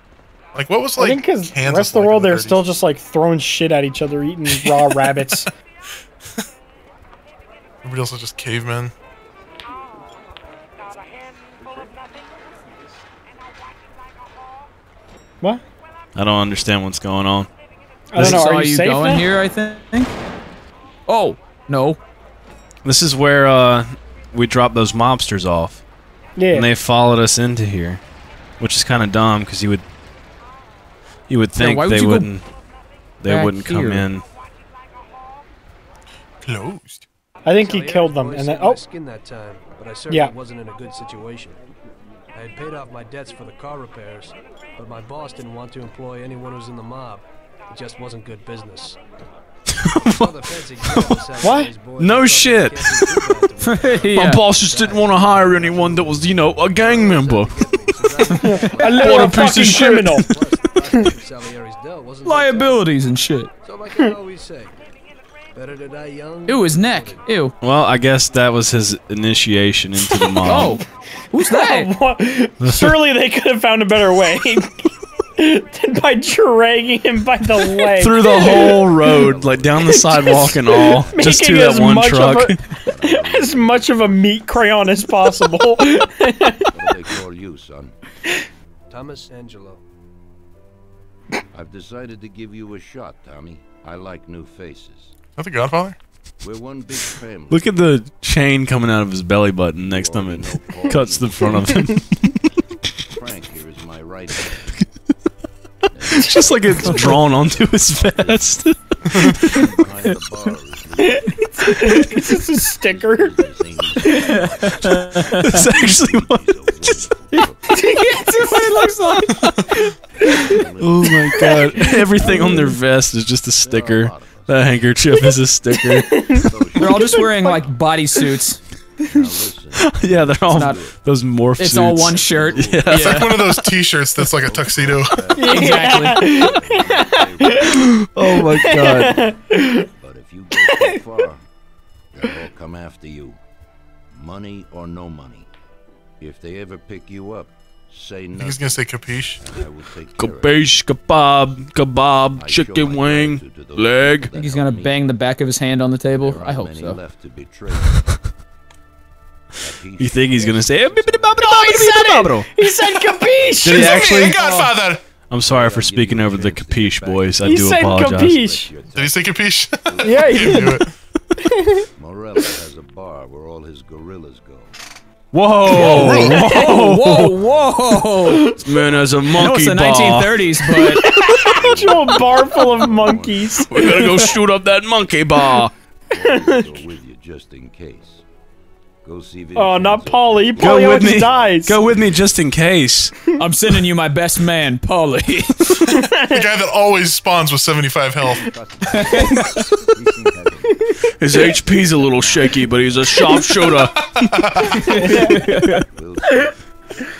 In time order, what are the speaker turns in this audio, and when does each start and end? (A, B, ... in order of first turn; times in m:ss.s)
0:00.5-0:02.8 A
0:01.0-0:05.5 B
0:04.6-0:05.3 A
0:07.8-0:08.9 A
0:16.2-0:17.5 C
0:18.1-0:19.2 B
0:18.1-0:18.4 C
0:18.2-0:20.1 D
0:21.1-0:22.0 D
0:22.8-0:25.8 C
0:26.4-0:26.7 B
0:26.5-0:28.0 C
0:28.6-0:29.8 C
0:31.3-0:32.4 C
0:31.6-0:32.3 D
0:33.2-0:34.2 C
0:33.2-0:34.1 D
0:36.4-0:37.0 A
0:37.4-0:38.8 B
0:37.6-0:41.6 E
0:42.3-0:49.0 E
0:49.7-0:51.4 C
0:50.0-1:02.9 E
0:51.4-0:51.7 B
0:52.0-0:53.4 C
0:53.6-0:54.4 D
0:54.1-0:58.2 C
0:58.4-1:01.1 B
0:58.9-1:00.3 C
1:02.2-1:03.5 D
1:03.6-1:04.7 E
1:05.5-1:07.2 E
1:06.4-1:07.5 D
1:07.6-1:10.8 C
1:10.4-1:11.9 D
1:11.4-1:27.1 B
1:12.6-1:13.0 C
1:17.7-1:22.6 C
1:18.5-1:21.9 F
1:22.6-1:24.9 F
1:26.7-1:27.9 F
1:28.9-1:29.8 E
1:31.5-1:35.1 F
1:35.4-1:36.0 A
1:36.4-1:37.7 F
1:37.5-1:42.4 C
1:39.8-1:42.0 F
1:43.0-1:44.8 F
1:45.9-1:58.4 F
1:46.1-1:49.6 C
1:49.4-1:50.1 D
1:51.1-1:53.4 B
1:51.6-1:52.0 D
1:54.0-1:54.4 B
1:54.0-1:55.7 D
1:55.2-1:57.1 C
1:57.7-2:00.6 B
1:58.3-1:59.4 D
1:59.7-2:02.5 F
2:00.8-2:06.5 C
2:01.4-2:02.6 B
2:03.6-2:05.0 F
2:05.8-2:07.6 B
2:06.4-2:07.3 F
2:06.8-2:08.6 D
2:09.0-2:13.6 F
2:09.7-2:13.7 C
2:10.5-2:10.8 D
2:11.6-2:13.3 D
2:12.9-2:15.2 A
2:14.2-2:19.2 F
2:15.4-2:19.9 B
2:15.4-2:16.5 D
2:17.6-2:19.2 C
2:20.0-2:21.4 F
2:20.5-2:21.0 B
2:22.1-2:23.4 F
2:24.1-2:25.5 F
2:26.2-2:28.8 F
2:28.4-2:29.5 A
2:29.4-2:30.7 F
2:30.2-2:34.3 C
2:32.3-2:35.1 F
2:34.3-2:37.0 D
2:36.2-2:38.2 F
2:39.6-2:41.9 F
2:40.0-2:42.5 C
2:41.4-2:44.4 B
2:43.1-2:43.7 F
2:43.6-2:44.4 C
2:43.7-2:45.0 A
2:44.2-2:44.6 F
2:45.3-2:48.4 C
2:45.4-2:50.8 F
2:47.4-2:48.7 B
2:48.9-2:50.9 A
2:50.0-2:50.8 B
2:51.4-2:51.8 B
2:52.0-2:54.7 F
2:55.3-2:57.4 C
2:55.7-2:58.6 D
2:55.7-2:59.2 F
2:55.8-2:57.0 B
2:58.2-2:58.7 B
2:58.6-3:00.6 C
2:59.3-3:01.1 D
3:00.8-3:04.3 B
3:01.0-3:04.4 F
3:03.5-3:05.7 C
3:06.1-3:08.2 F
3:06.1-3:06.8 B
3:09.0-3:12.3 F
3:09.5-3:11.8 B
3:10.6-3:13.1 C
3:13.4-3:15.8 D
3:15.8-3:16.4 B
3:15.8-3:18.5 A
3:18.3-3:24.0 F
3:18.9-3:19.7 D
3:21.2-3:24.1 C
3:23.9-3:24.8 A
3:24.6-3:26.6 F
3:24.7-3:25.8 D
3:24.8-3:25.4 B
3:26.3-3:26.5 B